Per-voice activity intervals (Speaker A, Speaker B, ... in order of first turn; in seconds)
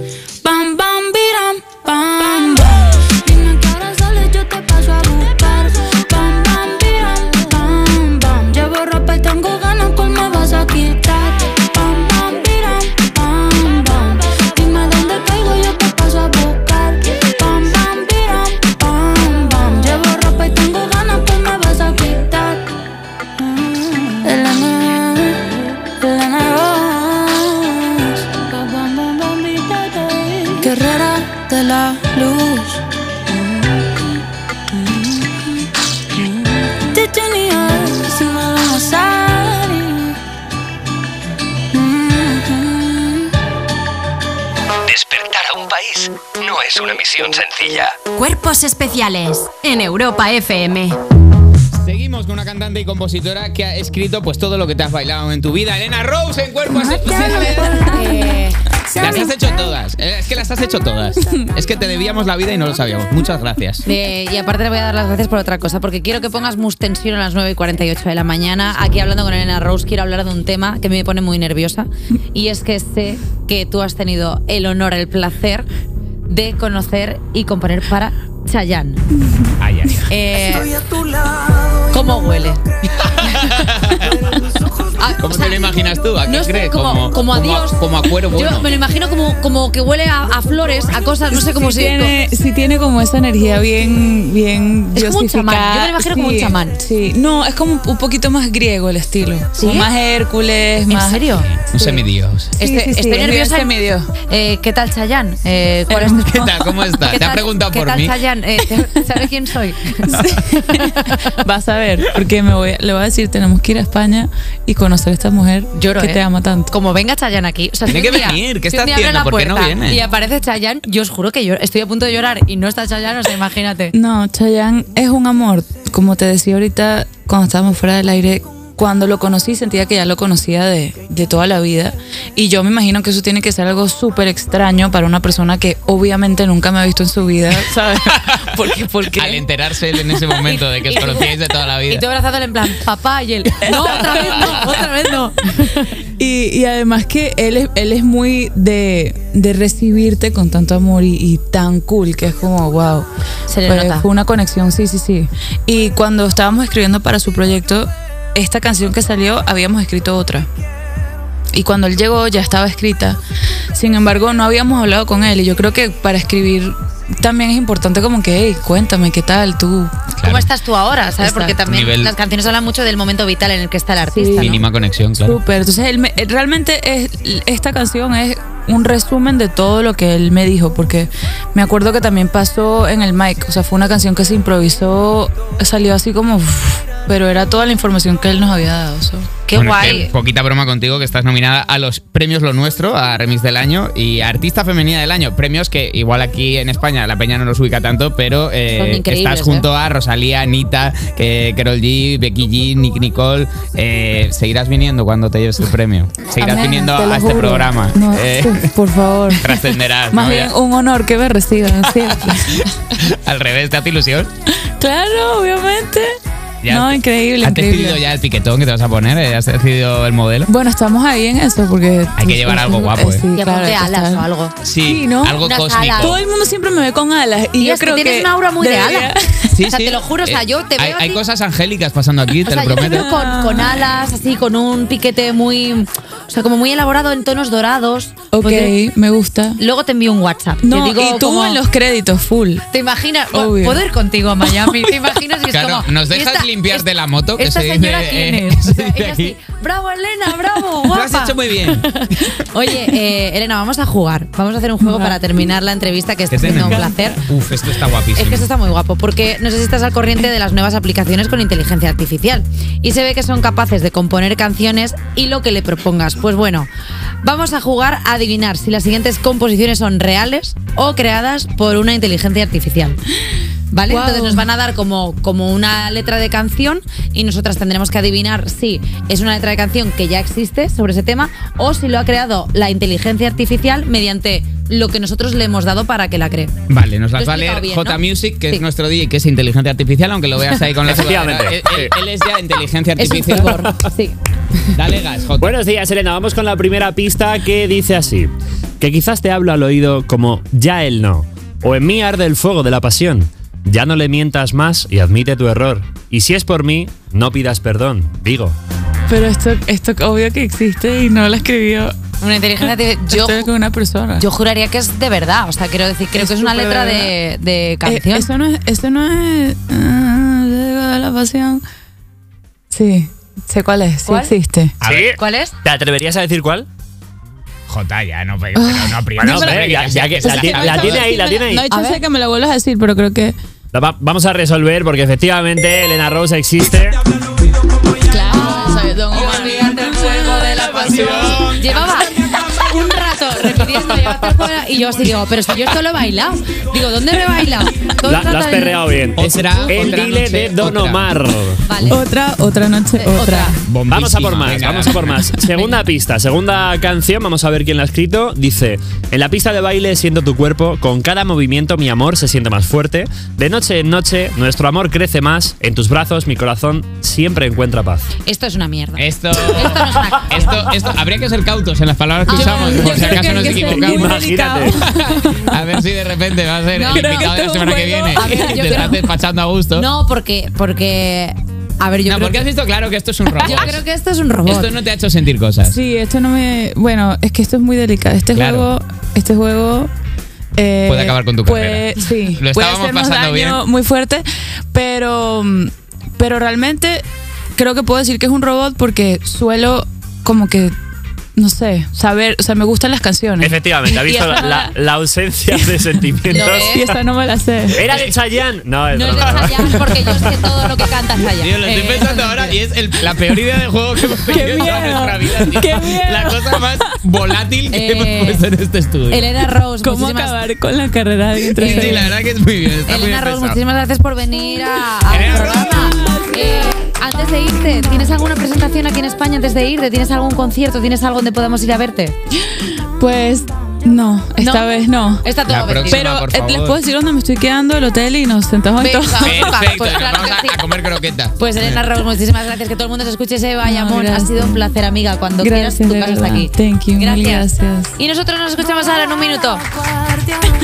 Speaker A: 0.4-22.6, 24.1-32.8, 36.9-40.1, 41.8-42.6
Speaker B: 44.9-47.9
Speaker C: 48.1-51.0
Speaker D: 51.7-58.0, 59.0-63.8, 79.6-80.0, 85.2-88.7, 101.3-102.5, 106.3-108.1, 117.9-120.0, 138.1-138.3, 139.1-142.0, 170.1-170.5, 171.6-172.1, 174.4-175.4, 189.5-208.7, 209.4-210.5, 211.8-212.3, 213.0-214.3, 216.6-220.5, 222.2-223.2, 224.6-226.2, 229.5-233.1, 245.5-249.3, 250.8-252.4, 256.3-258.5, 286.7-293.5, 294.7-295.5, 324.8-325.1, 327.7-331.1, 340.9-341.5, 349.1-351.0, 353.7-355.2, 369.0-374.1, 375.2-379.9, 382.0-383.8, 384.4-385.8, 388.3-388.7, 390.9-393.6, 411.2-419.3, 421.6-423.6, 425.1-425.7, 435.5-436.8, 439.2-441.8
Speaker E: 57.2-57.5, 91.3-101.2, 102.6-104.1, 105.9-106.5, 110.1-116.7, 123.9-139.4, 143.6-144.7, 146.0-153.1, 153.6-160.5, 161.5-163.2, 163.7-169.9, 171.2-171.6, 174.1-174.6, 175.2-189.3, 206.3-209.5, 210.1-212.6, 214.6-216.1, 216.7-218.0, 220.5-224.2, 224.8-225.4, 226.0-229.6, 232.8-233.8, 238.3-239.6, 240.6-242.7, 243.3-243.8, 254.8-255.2, 256.4-257.2, 273.9-274.4, 309.1-311.9, 313.1-314.2, 316.2-317.1, 317.9-321.6, 322.7-324.8, 328.5-329.7, 330.2-333.4, 338.1-342.0, 351.8-353.5, 372.3-375.5, 376.9-379.0, 383.4-383.7, 385.6-389.9, 390.6-397.0, 397.5-400.7, 401.4-404.7, 406.7-407.8, 414.3-416.9, 419.8-422.1, 425.4-426.8, 432.6-435.3, 435.9-439.5, 443.6-444.6, 445.4-447.9
Speaker F: 57.8-59.2, 63.8-75.7, 76.3-79.0, 80.1-80.7, 81.8-83.9, 84.8-85.8, 86.3-92.1, 94.9-96.8, 99.6-99.9, 100.9-101.5, 102.6-103.7, 104.3-106.5, 107.1-111.2, 115.8-123.9, 140.4-141.3, 141.9-145.9, 153.5-154.1, 170.2-174.6, 189.5-190.1, 198.7-199.7, 223.3-224.5, 225.4-226.2, 227.6-229.1, 229.7-231.2, 232.4-238.7, 239.6-241.6, 242.7-257.2, 258.1-266.7, 267.2-273.0, 273.7-286.5, 287.1-288.6, 293.0-294.2, 312.2-313.5, 314.2-318.3, 324.1-324.3, 325.2-325.5, 331.7-332.0, 338.3-348.8, 349.5-349.8, 351.6-352.0, 353.0-353.6, 368.2-370.7, 372.3-373.1, 376.7-377.3, 378.1-379.0, 379.7-382.5, 383.4-384.7, 406.3-406.8, 408.9-412.6, 414.5-414.7, 417.7-418.4, 419.1-420.4, 421.6-422.1, 422.9-432.1, 434.4-434.7, 435.2-436.1, 438.8-440.6, 441.4-449.6
Speaker G: 290.8-291.9, 293.5-293.8, 295.4-308.6, 324.8-326.7, 329.2-331.6, 333.7-337.0, 348.0-351.6, 353.9-368.1, 372.8-374.8, 403.4-406.9, 407.7-410.2